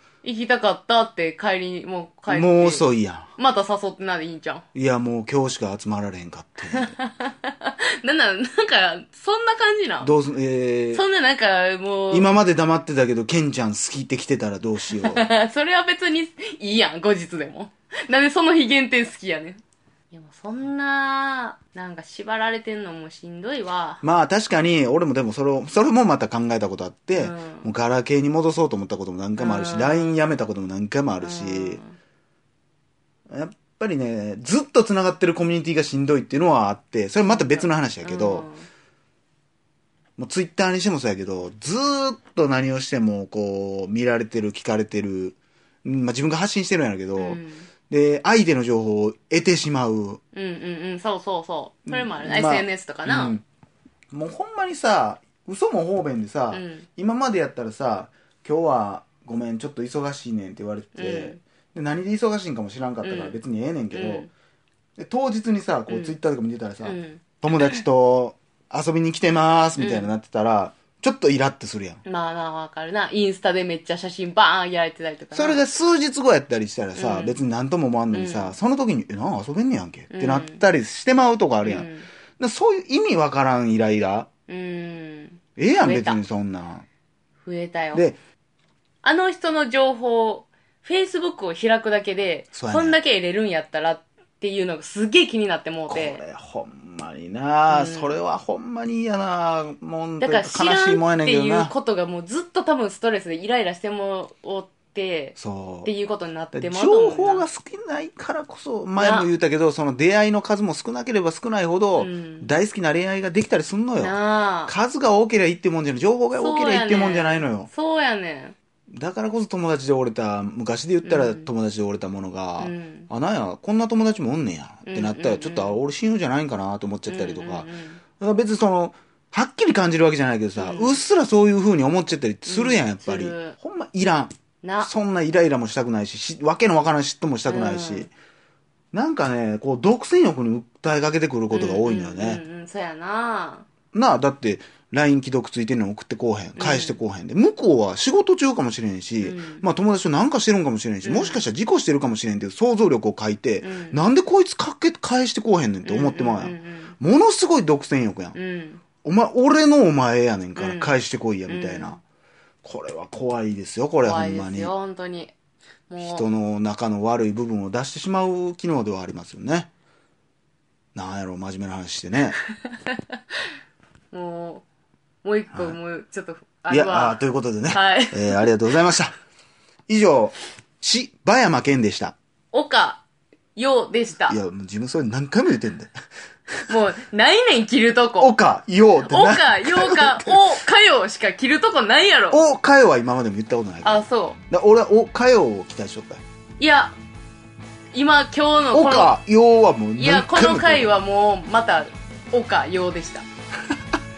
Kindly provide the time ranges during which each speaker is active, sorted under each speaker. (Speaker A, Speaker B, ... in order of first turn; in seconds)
Speaker A: 0.2-2.9, 3.4-4.7, 6.7-10.1, 10.9-12.3, 15.0-19.6, 20.1-24.0, 27.1-27.7, 29.4-30.2, 31.2-32.0, 37.3-38.7, 47.2-47.7, 50.4-53.4, 56.5-56.9, 61.0-61.4, 63.0-63.4, 63.9-64.3, 65.9-66.2, 66.8-67.8, 69.8-70.1, 72.0-75.6, 77.0-77.4, 78.1-78.6, 80.1-80.6, 81.6-82.1, 84.5-86.2, 87.5-88.1, 89.0-96.2, 97.7-98.2, 100.2-107.5, 109.0-109.3, 112.0-112.5, 114.0-114.7, 116.3-118.5, 121.0-121.5, 122.6-123.1, 124.9-125.8, 127.1-128.0, 130.6-131.0, 132.5-133.6, 134.6-134.9, 137.5-138.1, 141.5-143.7, 146.6-147.0, 149.2-149.7, 151.0-151.4, 153.6-154.0, 155.8-156.9, 158.3-158.8, 160.6-160.9, 161.5-162.0, 164.0-165.3, 165.9-166.3, 174.1-174.7, 175.2-177.2, 177.7-178.5, 182.5-183.0, 183.6-184.4, 186.7-188.4, 189.0-192.4, 193.8-194.4, 196.6-196.9, 197.9-199.2, 200.0-203.3
Speaker B: 2.3-3.3, 4.7-7.0, 10.0-11.0, 12.1-15.3, 24.0-31.8, 33.3-38.5, 40.2-50.2, 51.9-53.4, 54.1-64.3, 65.0-72.0, 75.3-84.3, 85.6-86.8, 92.5-93.0, 95.9-101.7, 105.4-105.9, 106.5-114.2, 114.7-117.7, 118.9-138.1, 138.9-142.4, 143.9-158.4, 159.0-162.0, 162.6-164.7, 166.0-169.7, 170.9-172.4, 175.5-175.8, 176.7-179.2, 179.9-182.2, 184.3-185.9, 188.2-190.4, 192.3-196.2, 198.7-201.0